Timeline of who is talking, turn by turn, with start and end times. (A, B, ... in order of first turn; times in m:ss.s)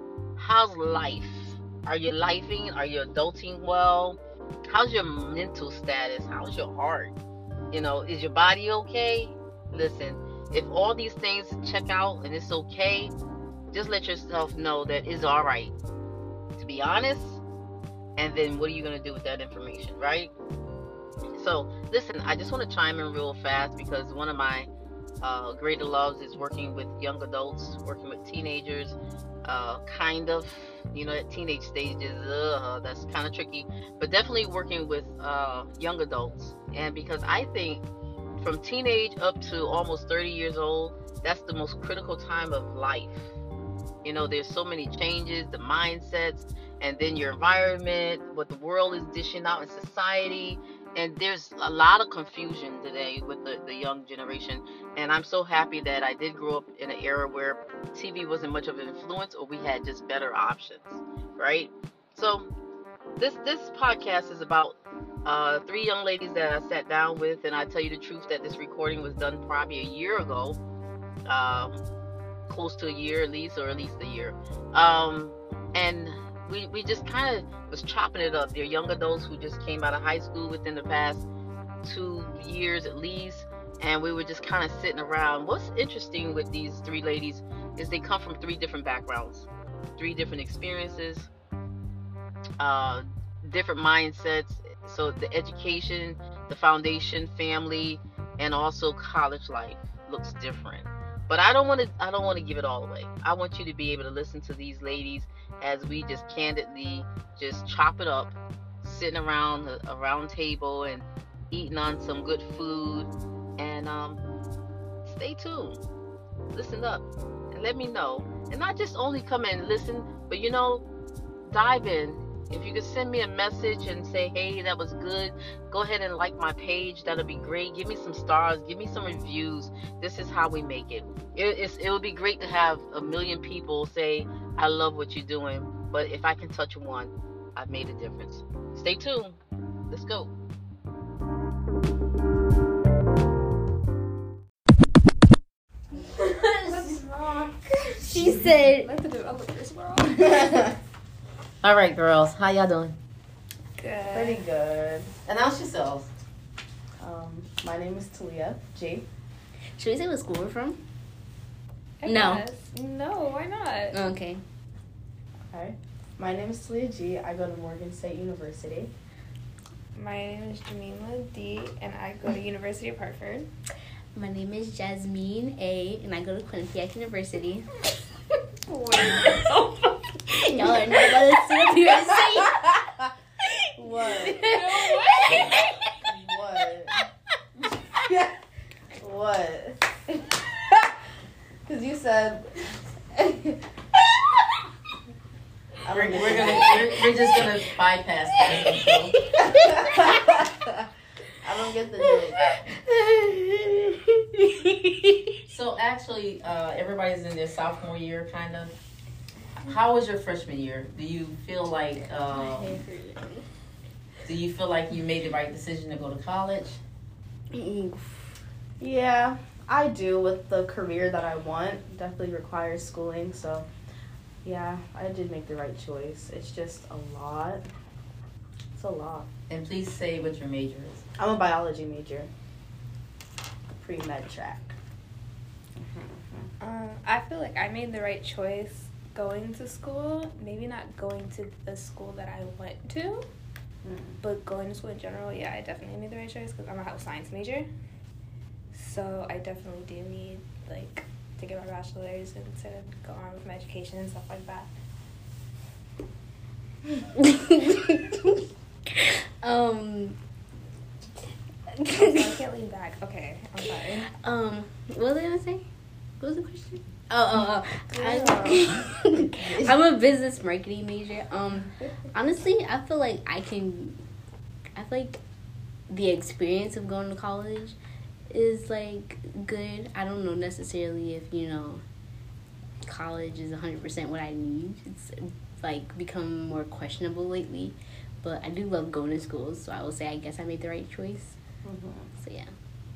0:00.4-0:07.1 A
0:07.7-0:13.1 A
0:13.7-0:15.7 A
0:16.6-0:17.4 A
0:18.2-0:20.3 A
0:21.3-0:24.7 A
0:25.2-0:37.8 A
0:38.4-0:43.3 A
0:44.0-1:02.5 A
1:03.2-1:10.6 A
1:11.2-1:11.8 A
1:12.5-1:21.2 A
1:21.8-1:31.3 A
1:32.6-1:54.2 A
1:55.0-1:55.8 A
1:56.5-2:00.8 A
2:01.4-2:19.4 A
2:19.9-2:20.3 A
2:26.4-2:27.0 B
2:26.6-2:30.5 C
2:28.0-2:28.9 B
2:30.2-2:30.7 D
2:31.6-2:33.0 A
2:33.8-2:34.4 C
2:34.1-2:35.1 D
2:35.2-2:36.1 A
2:37.0-2:39.0 D
2:39.8-2:40.8 B
2:42.0-2:44.0 C
2:42.0-2:42.4 B
2:43.9-2:44.4 B
2:45.5-2:48.9 D
2:49.9-2:53.5 C
2:54.1-2:57.7 B
2:58.7-3:00.5 C
3:00.4-3:02.7 B
3:03.8-3:04.4 D
3:04.2-3:05.6 B
3:04.4-3:05.5 C
3:06.0-3:07.0 D
3:08.0-3:08.3 D
3:09.0-3:10.4 D
3:11.6-3:13.6 D
3:15.8-3:16.9 D
3:15.9-3:19.2 A
3:18.5-3:20.4 B
3:19.6-3:20.4 D
3:21.4-3:22.6 D
3:22.1-3:25.2 B
3:25.5-3:28.7 A
3:29.6-3:32.8 A
3:32.3-3:33.4 B
3:34.2-3:36.8 A
3:37.5-3:38.4 B
3:38.8-3:43.7 D
3:44.4-3:47.6 D
3:48.8-3:49.3 D
3:49.5-3:51.0 A
3:51.2-3:52.3 D
3:53.7-3:54.7 D
3:55.8-3:56.5 D
3:56.6-4:03.3 C
4:03.8-4:04.2 D
4:04.2-4:07.7 C
4:08.7-4:14.7 C
4:17.2-4:18.4 B
4:18.9-4:20.2 B
4:21.8-4:22.3 B
4:21.9-4:24.1 C
4:23.6-4:25.7 B
4:26.2-4:34.0 B
4:27.9-4:29.7 D
4:34.8-4:35.2 B
4:35.9-4:37.8 B
4:38.3-4:41.8 B
4:42.8-4:51.4 B
4:51.6-4:52.1 D
4:52.2-4:52.5 B